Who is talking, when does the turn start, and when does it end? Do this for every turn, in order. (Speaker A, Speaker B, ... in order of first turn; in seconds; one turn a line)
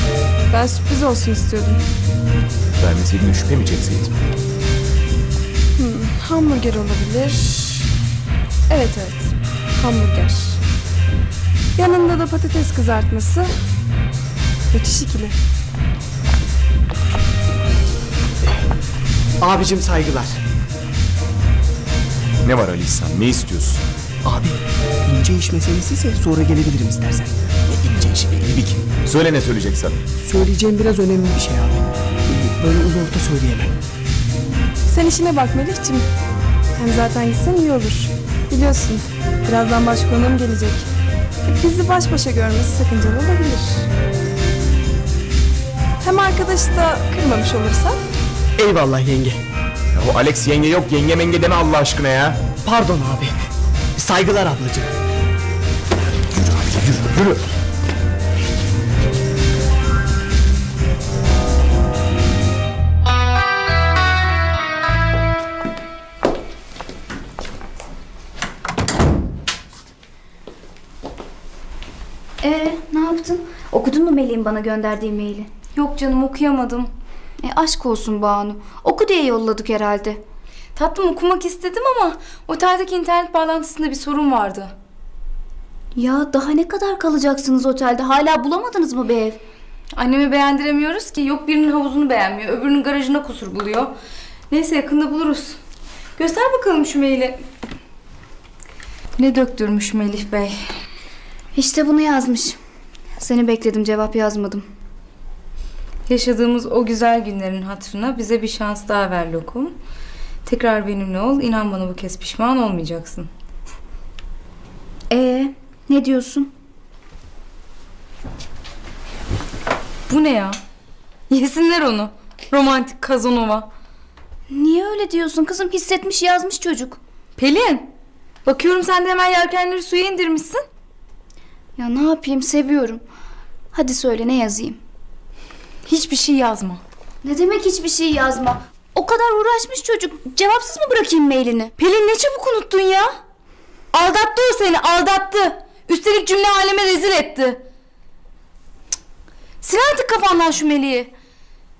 Speaker A: 0.5-1.8
Speaker B: 2.8-4.1
Speaker A: 5.8-7.9
Speaker A: 8.7-10.6
Speaker A: 11.8-13.5
Speaker A: 14.7-15.3
Speaker C: 19.4-20.3
Speaker B: 22.4-23.8
Speaker C: 24.2-28.8
Speaker B: 27.9-30.0
Speaker C: 30.2-33.7
Speaker A: 34.9-36.0
Speaker A: 36.8-40.9
Speaker A: 41.5-43.9
Speaker A: 46.0-48.0
Speaker C: 48.6-49.4
Speaker B: 49.9-52.4
Speaker C: 52.6-53.3
Speaker C: 54.0-54.9
Speaker B: 56.5-57.0
Speaker D: 72.4-75.6
Speaker E: 75.7-76.9
Speaker D: 77.4-80.2
Speaker E: 80.8-84.7
Speaker D: 86.0-89.4
Speaker E: 89.9-93.9
Speaker E: 94.5-95.6
Speaker E: 96.2-97.4
Speaker E: 99.2-100.5
Speaker D: 101.5-102.6
Speaker D: 103.2-104.6
Speaker E: 106.1-109.7
Speaker E: 110.5-113.3
Speaker D: 115.1-116.5
Speaker E: 120.1-120.5
Speaker E: 121.3-123.7
Speaker D: 124.5-127.0
Speaker E: 127.4-127.9
Speaker E: 128.4-130.6
Speaker D: 131.8-133.0
Speaker D: 133.7-134.8
Speaker E: 135.9-136.8
Speaker D: 137.2-141.7
Speaker E: 141.8-143.1
Speaker E: 143.9-147.6
Speaker E: 149.6-151.1